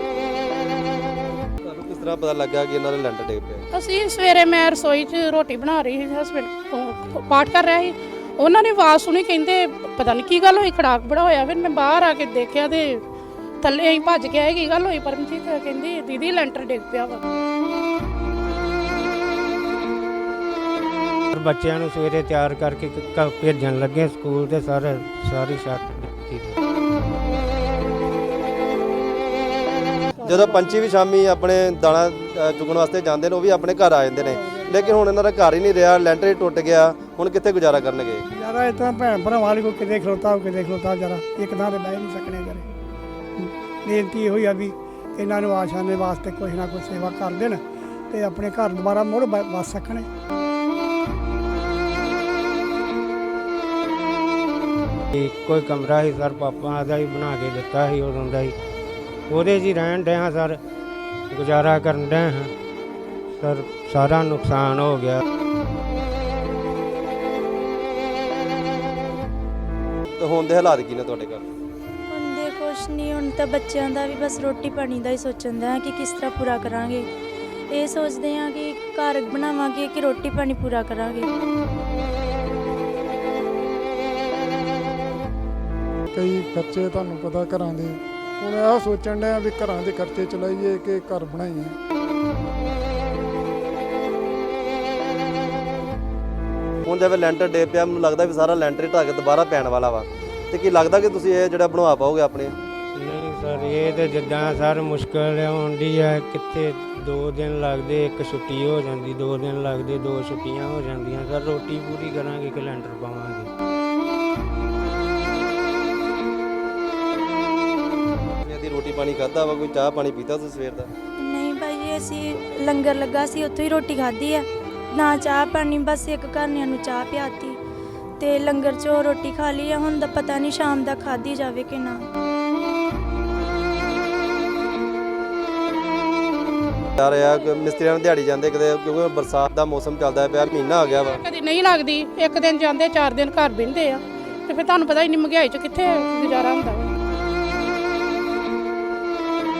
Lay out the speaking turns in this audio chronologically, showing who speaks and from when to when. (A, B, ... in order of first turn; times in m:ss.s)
0:01.6-0:03.6 A
0:03.7-0:13.0 B
0:13.6-0:17.2 B
0:21.3-0:26.5 C
0:30.2-0:30.7 D
0:30.2-0:38.2 A
0:34.2-0:35.0 D
0:38.3-0:42.6 D
0:43.4-0:50.1 D
0:55.1-0:58.5 C
0:59.3-1:00.6 C
1:01.3-1:02.5 C
1:03.3-1:05.2 C
1:10.2-1:11.4 A
1:12.1-1:17.0 E
1:17.7-1:21.3 E
1:26.1-1:31.8 F
1:36.8-1:42.5 A
1:42.9-1:53.5 C
1:58.4-2:00.9 A
2:01.2-2:04.4 E
2:04.9-2:07.6 E
2:08.2-2:12.0 E
2:17.0-2:21.2 A
2:20.8-2:27.0 B